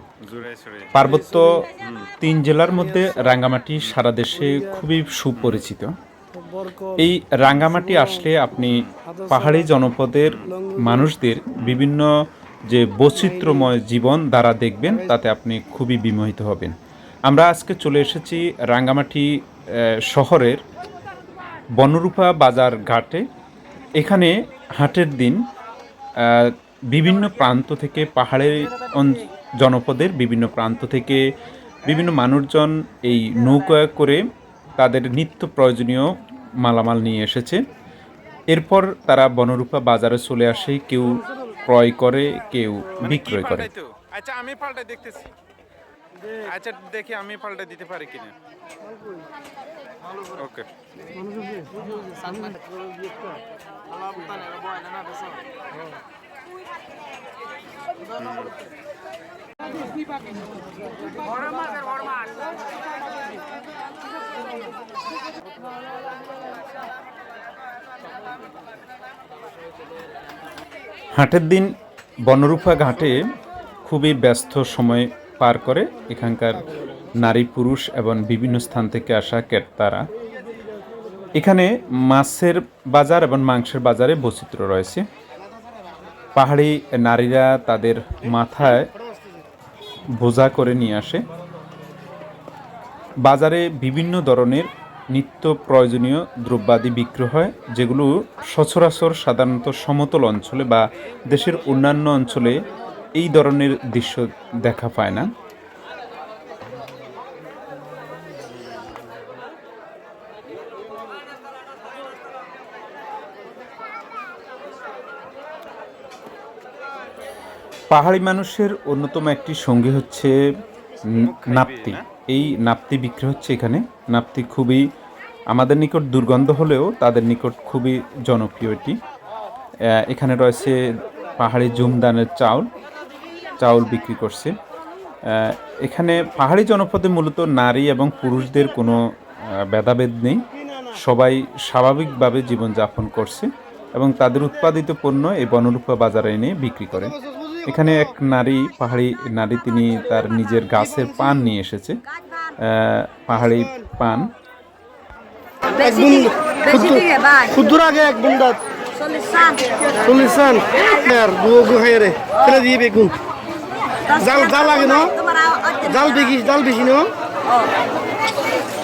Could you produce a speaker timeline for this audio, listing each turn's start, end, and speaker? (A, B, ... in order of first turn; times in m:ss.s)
0:00.2-0:00.9 A
0:00.9-0:01.7 B
0:01.8-0:02.1 A
0:02.2-0:05.9 B
0:07.0-0:12.1 B
0:12.7-0:16.7 B
0:17.3-0:20.6 B
0:21.8-0:23.2 B
0:24.0-0:25.4 B
0:26.2-0:31.2 B
0:31.8-0:34.2 B
0:34.8-0:37.6 B
0:38.5-0:43.7 B
0:43.0-0:45.3 A
0:46.3-0:48.3 A
0:50.4-0:50.7 A
0:58.2-0:58.5 A
1:11.2-1:11.7 B
1:12.3-1:13.2 B
1:13.8-1:20.0 B
1:21.4-1:25.0 B
1:26.4-1:28.9 B
1:30.2-1:31.2 B
1:33.2-1:42.6 B
1:43.2-1:45.3 B
1:57.9-2:00.3 B
2:01.1-2:04.8 B
2:01.3-2:02.0 A
2:05.5-2:08.9 B
2:10.0-2:10.8 B
2:11.4-2:12.7 B
2:13.6-2:14.5 B
2:15.3-2:19.0 B
2:19.6-2:27.1 B
2:27.7-2:32.0 B
2:32.6-2:34.3 B
2:35.7-2:43.1 C
2:44.0-2:47.1 C